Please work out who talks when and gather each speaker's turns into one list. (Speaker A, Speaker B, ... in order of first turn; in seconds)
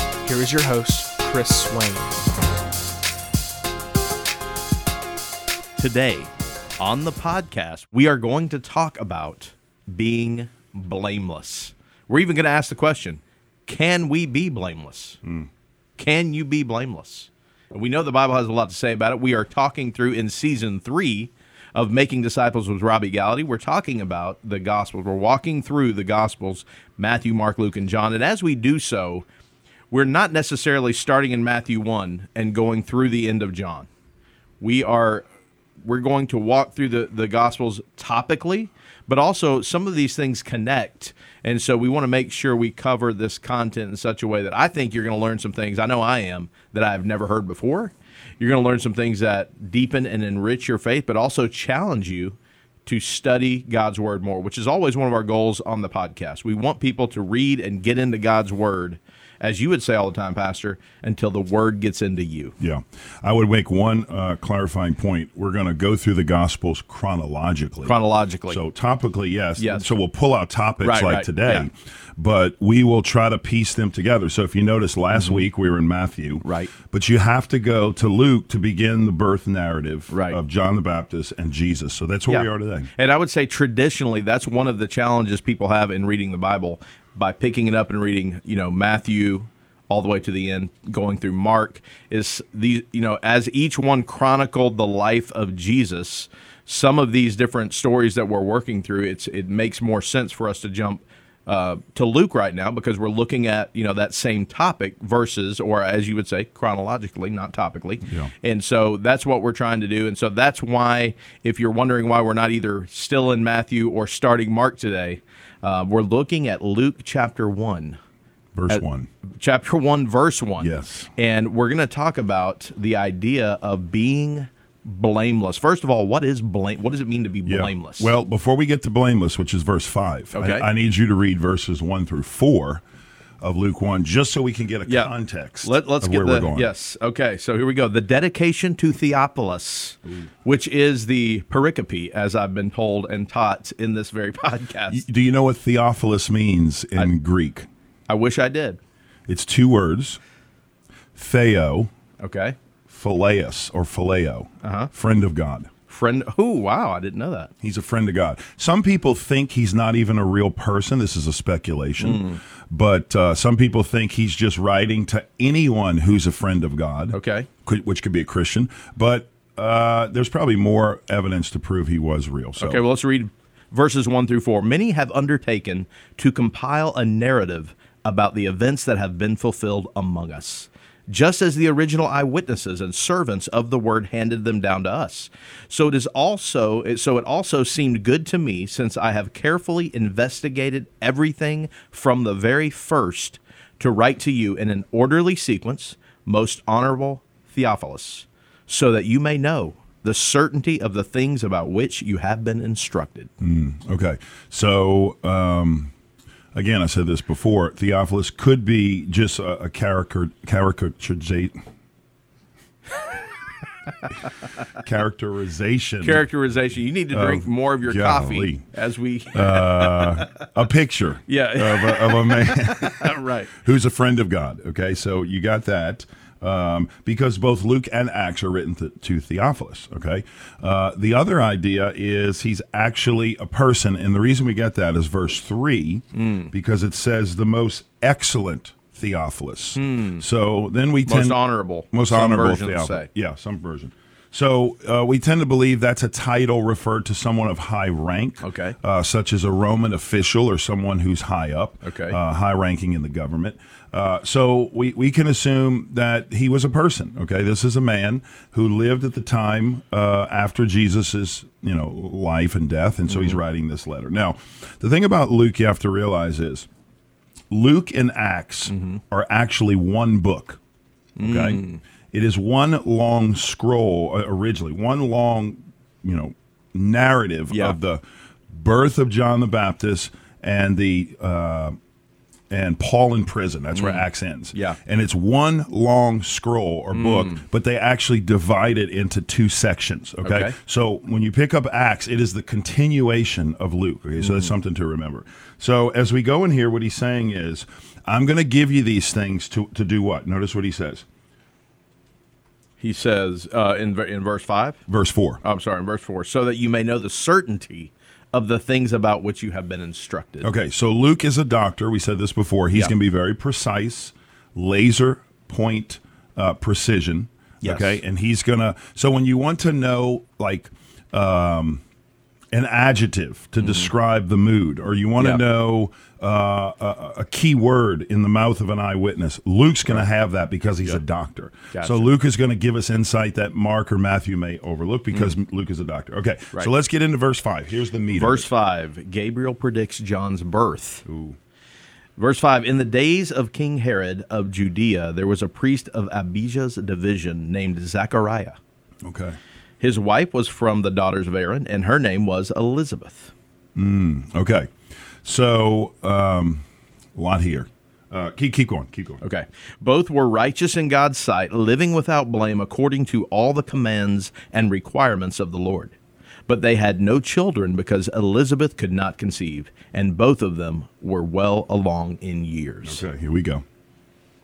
Speaker A: 0.2-2.2
Speaker B: 5.8-15.2, 16.0-29.2, 29.9-33.9, 34.6-35.2, 35.8-62.5, 67.8-68.6, 69.6-69.9, 70.8-71.7, 75.1-75.4, 76.4-76.7, 80.1-80.4, 82.3-118.0, 119.4-128.1, 130.3-130.7, 134.8-135.1, 135.6-145.0, 148.1-148.8, 152.2-152.6, 154.6-154.9, 155.9-157.5, 162.0-162.4, 167.1-167.5, 172.6-203.3, 216.0-220.3, 221.3-223.5, 236.1-236.5, 239.8-240.2, 241.1-243.1, 248.4-248.8, 251.8-252.2, 263.1-263.4, 268.7-269.0, 271.2-271.8, 277.5-277.8, 283.7-284.8, 286.9-287.4, 290.2-290.6, 294.2-294.5, 302.8-304.8, 305.4-310.5, 317.6-318.0, 323.6-323.9, 331.7-332.1, 338.1-341.1, 342.2-348.6, 349.8-353.3, 359.2-365.9, 366.5-373.0
Speaker C: 15.2-15.5, 62.6-68.0, 68.5-82.9, 108.0-108.3, 118.5-119.1, 120.6-121.1, 127.5-132.8, 133.4-136.7, 144.9-147.7, 149.3-150.2, 151.1-151.9, 152.9-155.7, 157.6-172.8, 203.4-205.9, 206.5-211.6, 214.8-216.2, 217.1-218.6, 219.3-241.4, 241.9-266.7, 267.5-270.6, 271.2-281.8, 282.5-301.0, 304.9-305.4, 310.4-321.8, 322.5-338.5, 341.1-341.4, 349.0-349.4, 353.7-354.7, 355.2-356.6, 357.1-359.2, 372.8-373.6